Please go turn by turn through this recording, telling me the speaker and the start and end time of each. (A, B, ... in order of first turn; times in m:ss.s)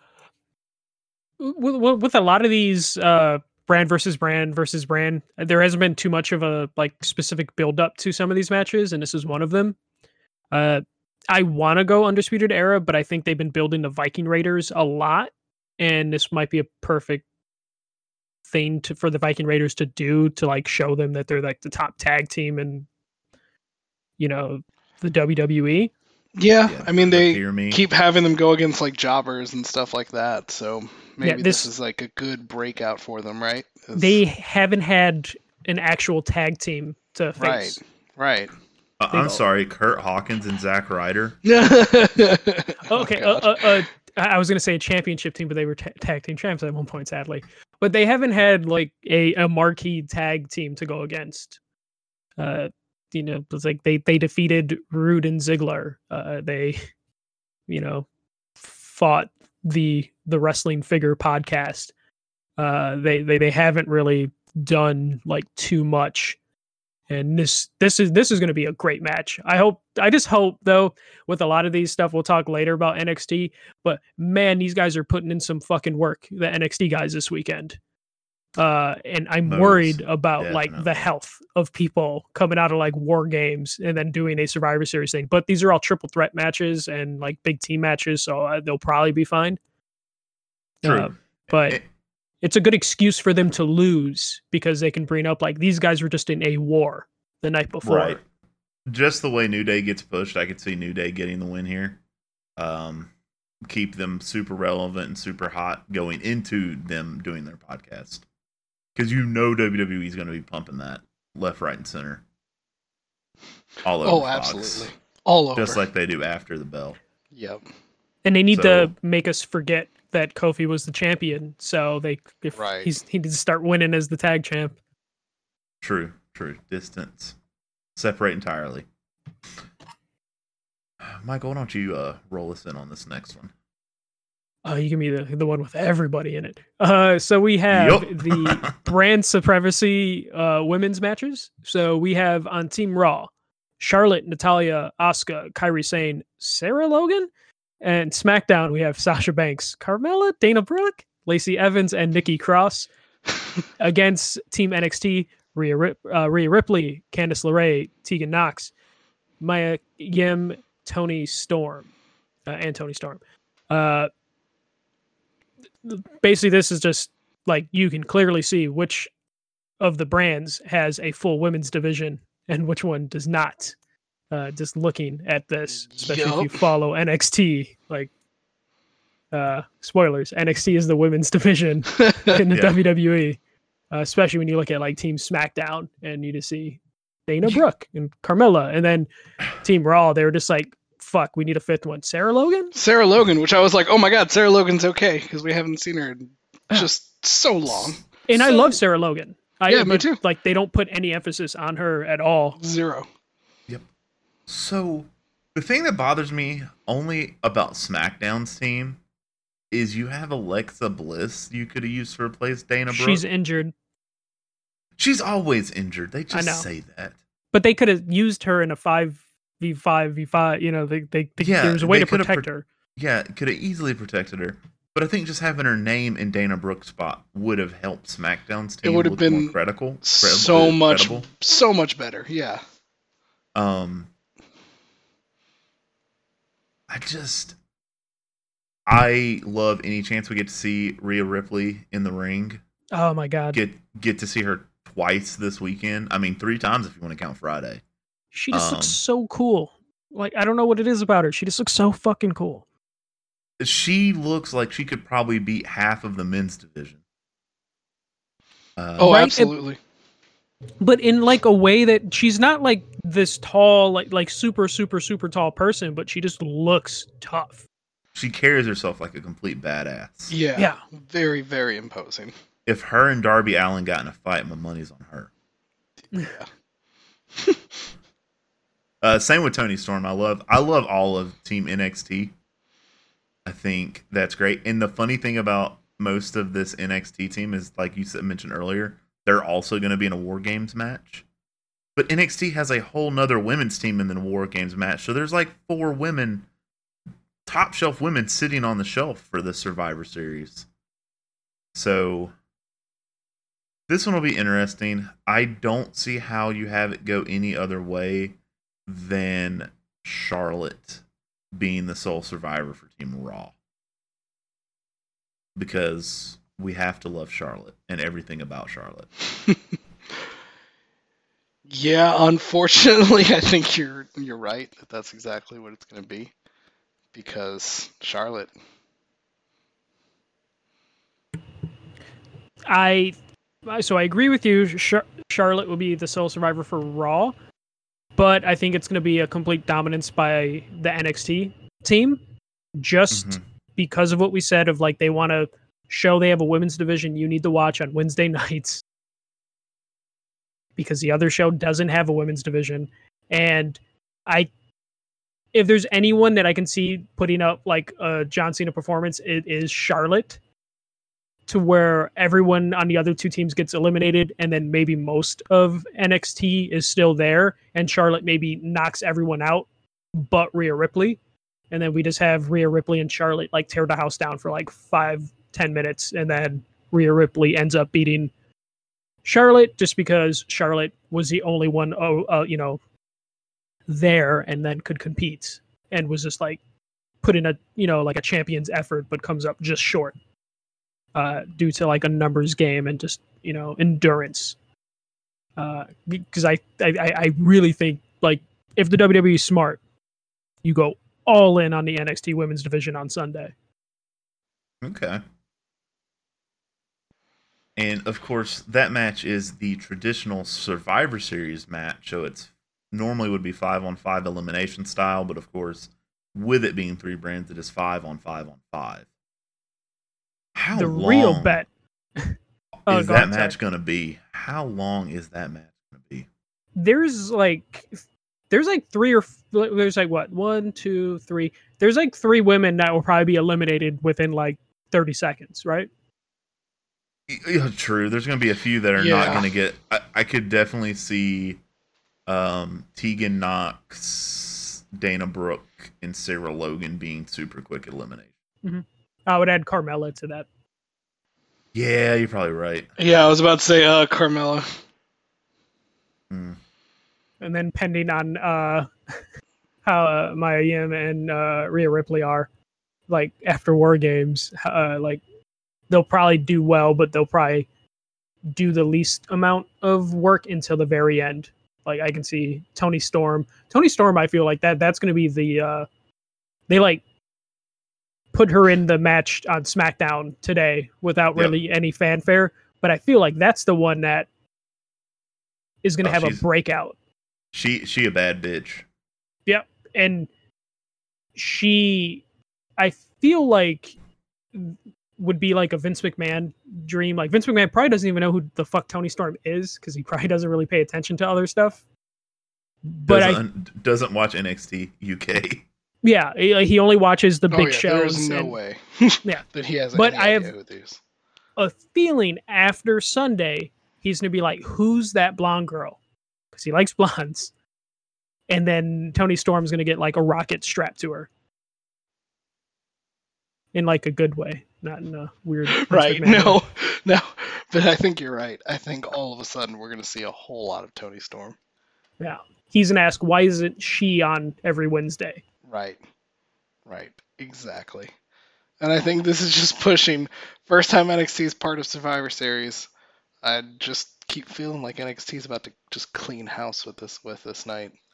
0:01.4-0:09.8 A
0:10.5-0:17.2 A
0:18.5-0:22.9 A
0:24.2-0:25.9 A
0:26.4-0:34.2 B
0:26.7-0:27.8 C
0:31.2-0:31.7 A
0:34.0-0:37.8 A
0:37.4-0:38.5 B
0:39.0-0:41.4 C
0:41.4-0:43.8 B
0:42.9-0:51.6 A
0:52.4-0:56.8 A
0:57.7-0:58.1 A
0:58.6-1:01.9 A
1:02.6-1:06.4 A
1:07.1-1:17.8 A
1:18.6-1:29.6 A
1:19.4-1:20.9 C
1:30.8-1:31.8 A
1:30.8-1:31.8 C
1:32.4-1:38.2 A
1:37.8-1:38.2 C
1:38.9-1:42.0 C
1:42.6-1:43.1 C
1:43.7-1:48.2 C
1:49.0-1:52.2 C
1:53.8-1:54.9 C
1:54.0-1:55.8 B
1:55.6-1:57.0 C
1:57.3-1:57.6 B
1:58.2-2:04.8 A
1:58.5-1:58.9 C
2:02.6-2:03.0 B
2:05.8-2:07.4 C
2:08.0-2:08.9 C
2:11.0-2:13.5 C
2:14.6-2:27.3 A
2:17.7-2:18.8 C
2:27.8-2:32.9 A
2:33.8-2:38.7 A
2:39.4-2:41.9 A
2:42.5-2:44.1 A
2:45.8-2:49.1 A
2:49.8-2:53.8 A
2:54.3-2:58.1 A
2:55.9-2:56.7 B
2:59.3-3:03.4 A
3:02.0-3:02.4 B
3:02.5-3:02.8 C
3:03.9-3:12.7 A
3:12.8-3:18.8 B
3:18.3-3:22.6 A
3:19.7-3:20.2 B
3:22.6-3:23.1 B
3:24.5-3:29.0 C
3:29.7-3:33.2 C
3:32.9-3:33.7 A
3:35.0-3:37.2 C
3:36.3-3:36.7 A
3:37.5-3:42.6 A
3:41.4-3:51.3 C
3:48.8-3:52.6 B
3:53.6-3:54.1 C
3:56.9-3:57.6 C
3:58.9-4:02.6 C
4:02.9-4:03.6 A
4:03.5-4:07.8 C
4:08.3-4:12.6 A
4:08.5-4:09.0 C
4:13.6-4:17.0 C
4:18.8-4:19.2 C
4:19.0-4:19.8 B
4:19.0-4:19.5 A
4:20.8-4:27.6 A
4:28.2-4:30.3 C
4:30.3-4:32.3 B
4:30.6-4:30.8 A
4:32.7-4:35.3 C
4:36.1-4:36.5 B
4:39.0-4:42.3 C
4:43.5-4:51.2 C
4:52.0-4:56.5 C
4:57.5-5:00.7 C
5:01.8-5:02.3 C
5:03.9-5:08.4 C
5:08.9-5:11.0 C
5:11.5-5:13.5 C
5:15.6-5:19.1 C
5:21.7-5:26.3 B
5:27.1-5:28.5 B
5:32.7-5:33.2 A
5:33.7-5:37.3 A
5:38.2-5:42.2 A
5:42.8-5:48.8 A
5:43.1-5:43.4 C
5:50.8-5:54.5 A
5:55.5-6:00.4 A
6:01.5-6:11.2 A
6:11.7-6:18.3 A
6:19.2-6:22.8 A
6:23.9-6:26.6 A
6:27.2-6:30.1 A
6:31.2-6:34.6 A
6:35.6-6:39.8 A
6:40.6-6:43.5 A
6:44.8-6:45.2 C
6:47.8-6:59.1 C
7:00.6-7:01.6 C
7:00.8-7:02.4 A
7:02.9-7:06.3 C
7:02.9-7:03.6 A
7:06.8-7:08.0 A
7:08.5-7:15.9 A
7:17.3-7:21.6 C
7:19.0-7:19.5 B
7:22.3-7:28.3 C
7:28.6-7:30.5 A
7:31.7-7:32.9 C
7:33.0-7:34.7 B
7:36.3-7:36.6 C
7:37.4-7:38.9 A
7:39.8-7:42.5 A
7:43.1-7:45.2 A
7:45.9-7:47.7 A
7:48.4-7:55.9 A
7:56.7-7:57.0 A
7:58.3-8:04.3 A
8:05.8-8:07.0 A
8:06.0-8:06.4 C
8:07.5-8:08.9 C
8:09.5-8:10.3 A
8:11.4-8:12.2 A
8:12.8-8:14.0 A
8:14.6-8:21.8 A
8:23.0-8:23.4 A
8:23.1-8:25.6 C
8:26.0-8:28.6 A
8:27.5-8:31.0 B
8:29.2-8:30.5 A
8:31.6-8:36.0 A
8:36.5-8:37.5 A
8:38.5-8:41.3 A
8:43.7-8:46.6 A
8:45.7-8:51.6 B
8:52.2-8:55.4 A
8:55.6-8:56.0 B
8:56.9-8:58.1 B
8:58.8-9:02.9 B
9:03.4-9:08.0 B